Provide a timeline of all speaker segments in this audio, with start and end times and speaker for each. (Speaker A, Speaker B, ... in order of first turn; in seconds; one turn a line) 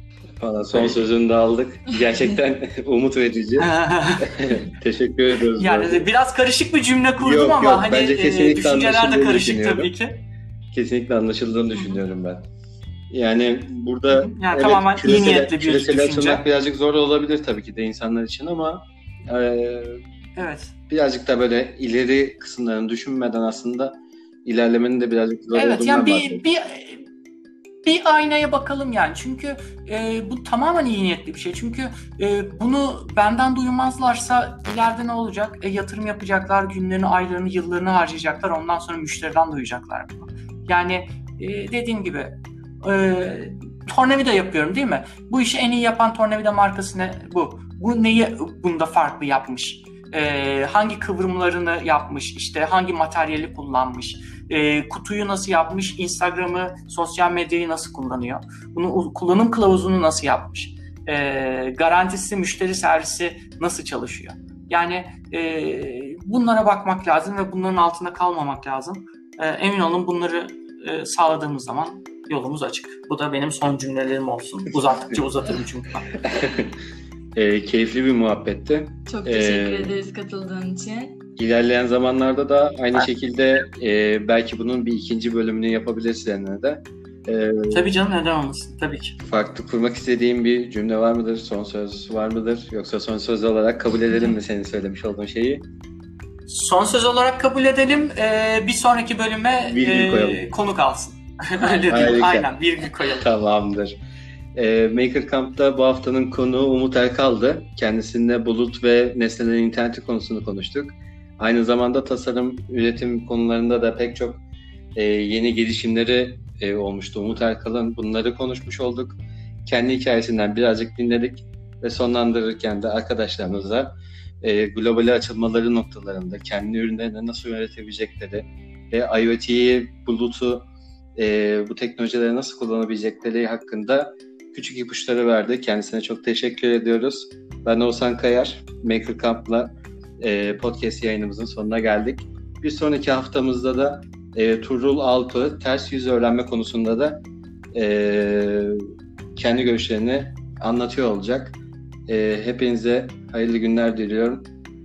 Speaker A: 0.4-6.1
Speaker B: 3.6-4.4
Speaker B: 5.5-10.2
Speaker A: 7.2-9.9
Speaker A: 10.7-12.5
Speaker A: 13.1-20.0
Speaker B: 14.1-16.4
Speaker B: 20.4-20.7
Speaker A: 20.9-23.9
Speaker A: 24.4-26.4
Speaker B: 25.5-27.1
Speaker B: 27.8-76.2
Speaker A: 76.2-76.7
Speaker A: 77.3-80.0
Speaker C: 79.1-81.2
Speaker A: 81.4-87.9
Speaker B: 87.7-89.2
Speaker A: 89.2-95.6
Speaker B: 96.5-103.2
Speaker A: 99.6-100.5
Speaker A: 101.9-102.5
Speaker A: 103.2-103.9
Speaker A: 104.5-114.4
Speaker A: 114.9-130.6
Speaker A: 131.2-147.2
Speaker A: 147.7-148.8
Speaker A: 149.3-154.5